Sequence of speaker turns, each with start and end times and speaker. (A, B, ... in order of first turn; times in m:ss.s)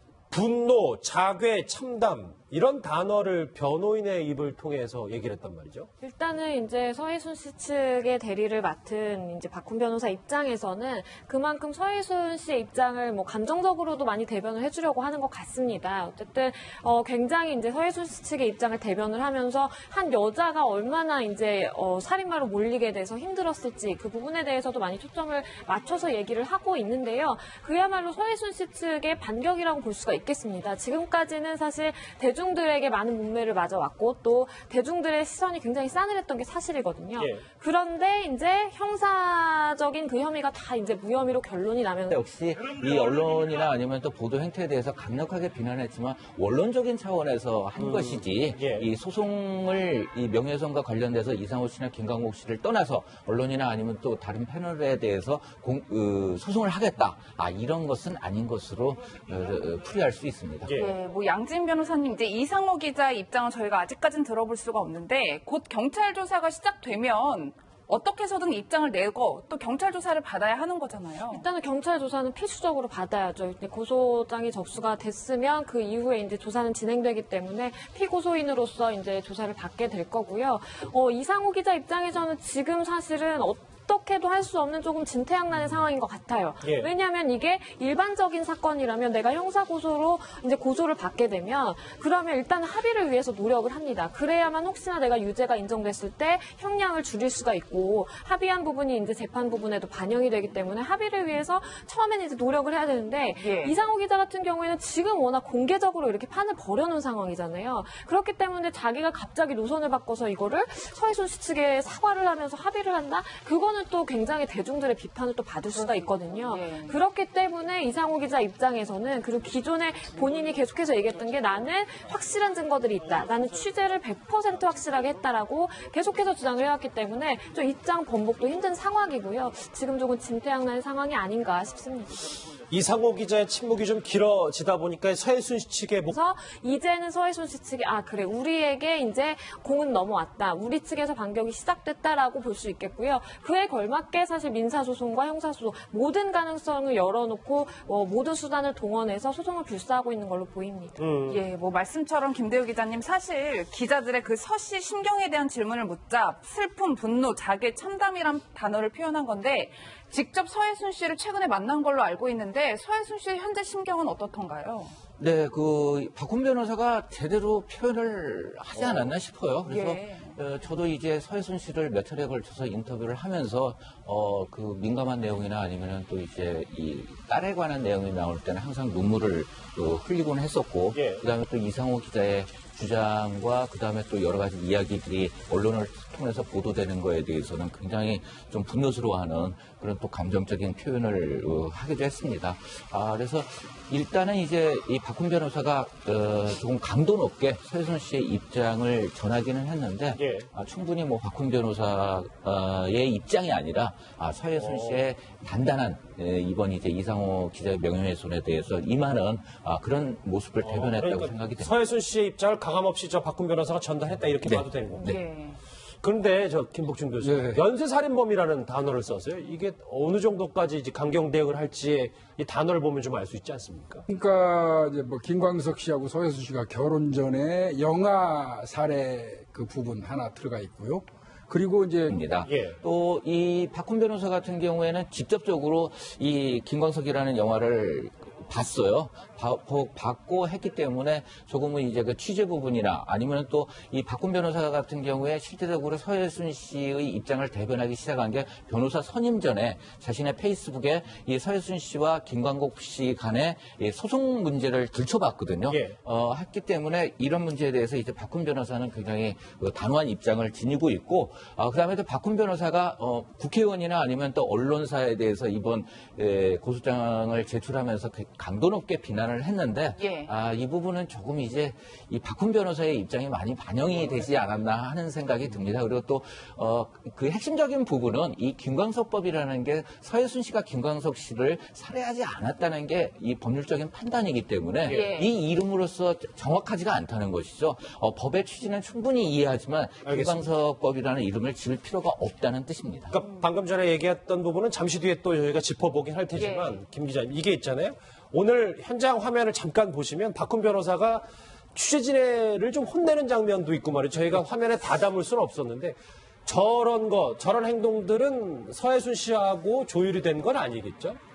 0:00.3-0:05.9 A
0:06.0-0:42.2 B
0:37.2-0:37.4 A
0:42.1-1:00.7 C
0:47.8-0:48.9 A
1:00.6-1:00.9 A
1:00.7-1:11.4 D
1:11.3-2:12.3 B
1:26.6-1:26.9 A
1:43.4-1:43.7 D
1:55.8-1:57.0 D
2:12.7-2:16.1 A
2:16.1-2:31.0 B
2:31.0-2:31.4 A
2:31.3-2:45.0 D
2:45.2-3:31.7 C
2:49.6-2:50.4 D
3:00.9-3:01.2 A
3:20.2-3:20.5 A
3:24.6-3:25.0 A
3:30.6-3:35.2 A
3:34.4-3:35.2 C
3:35.0-3:35.6 D
3:36.0-3:44.0 A
3:37.2-3:37.6 E
3:44.1-3:52.2 E
3:52.1-4:53.2 C
3:52.4-3:52.8 A
4:15.7-4:16.0 A
4:30.0-4:30.3 D
4:44.8-4:45.1 A
4:44.9-4:45.3 D
4:50.0-4:50.4 A
4:53.1-5:11.2 A
4:56.4-4:56.8 D